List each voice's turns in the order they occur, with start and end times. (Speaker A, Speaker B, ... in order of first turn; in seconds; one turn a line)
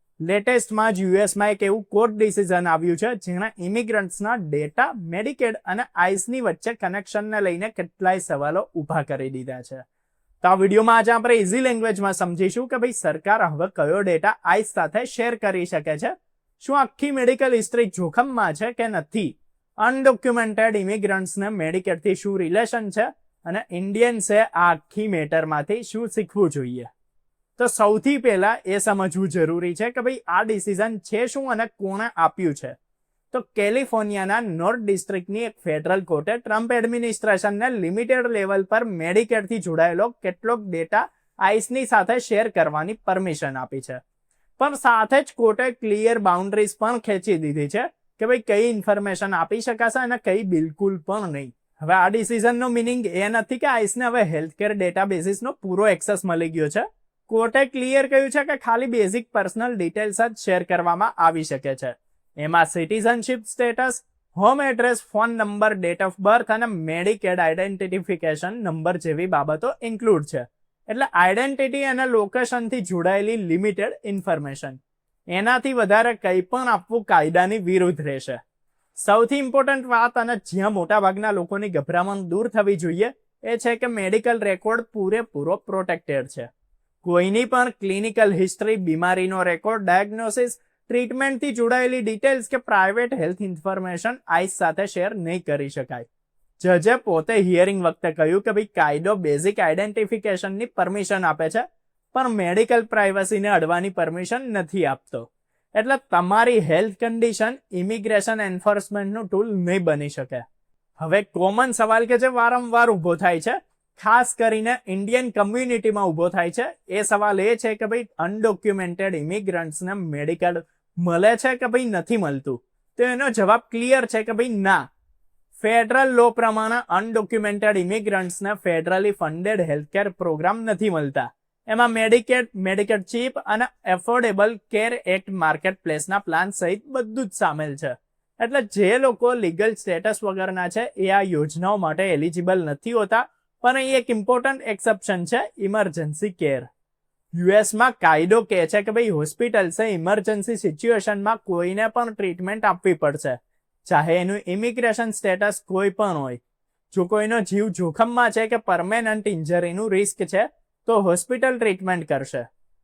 Speaker A: 0.2-9.8
Speaker A: 10.4-26.9
Speaker A: 27.6-32.8
Speaker A: 33.3-44.0
Speaker A: 44.6-74.8
Speaker A: 75.3-78.4
Speaker A: 79.0-86.5
Speaker A: 87.0-96.1
Speaker A: 96.6-110.4
Speaker A: 111.0-124.8
Speaker A: 125.6-146.7
Speaker A: 147.3-156.4
Speaker A: 156.9-162.4